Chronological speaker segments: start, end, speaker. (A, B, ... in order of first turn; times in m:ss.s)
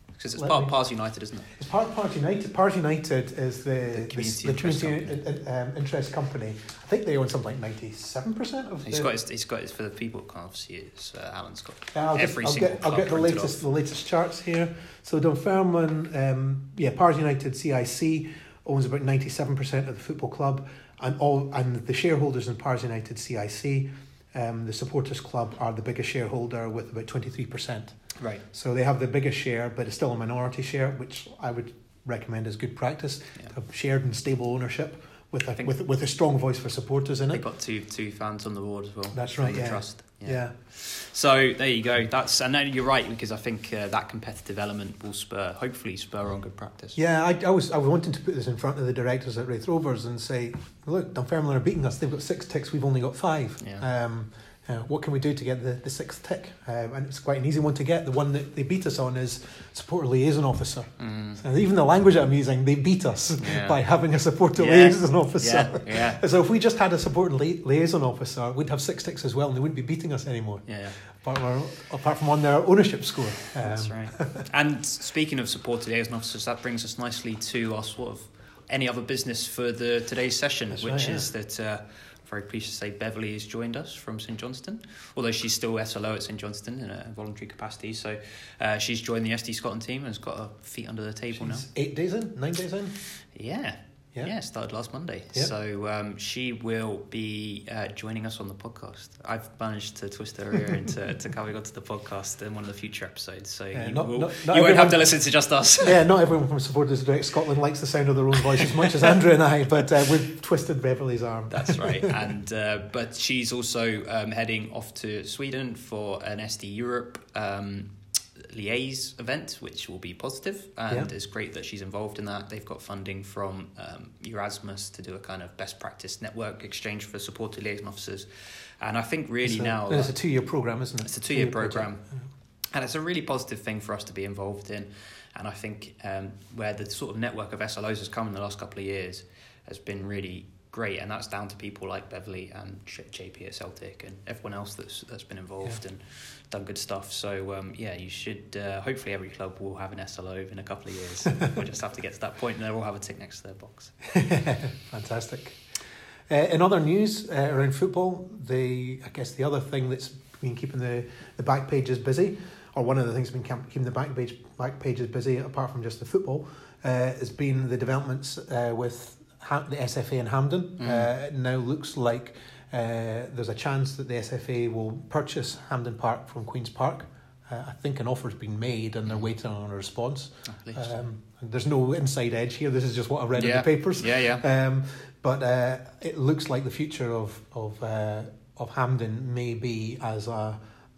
0:00.2-0:01.5 A
0:00.4-0:00.7 B
0:01.5-0:09.1 B
0:03.9-0:05.2 A
0:08.8-0:13.6 A
0:11.9-0:28.0 B
0:28.2-0:28.4 A
0:28.5-0:37.4 B
0:37.3-0:47.0 A
0:39.1-0:40.6 B
0:47.0-1:14.4 B
0:53.6-0:53.8 A
1:01.0-1:01.4 A
1:03.4-1:03.8 A
1:04.6-1:06.2 A
1:10.7-1:11.0 A
1:13.6-1:31.7 A
1:20.7-1:21.3 B
1:31.3-1:33.0 B
1:33.2-1:46.0 A
1:43.7-1:45.1 B
1:45.8-1:52.1 B
1:51.5-2:10.3 A
2:09.4-2:12.2 B
2:11.0-2:12.1 A
2:12.7-2:34.0 A
2:34.1-2:35.6 B
2:36.3-3:10.6 B
2:50.8-2:51.1 A
3:00.5-3:00.9 A
3:03.4-3:04.4 A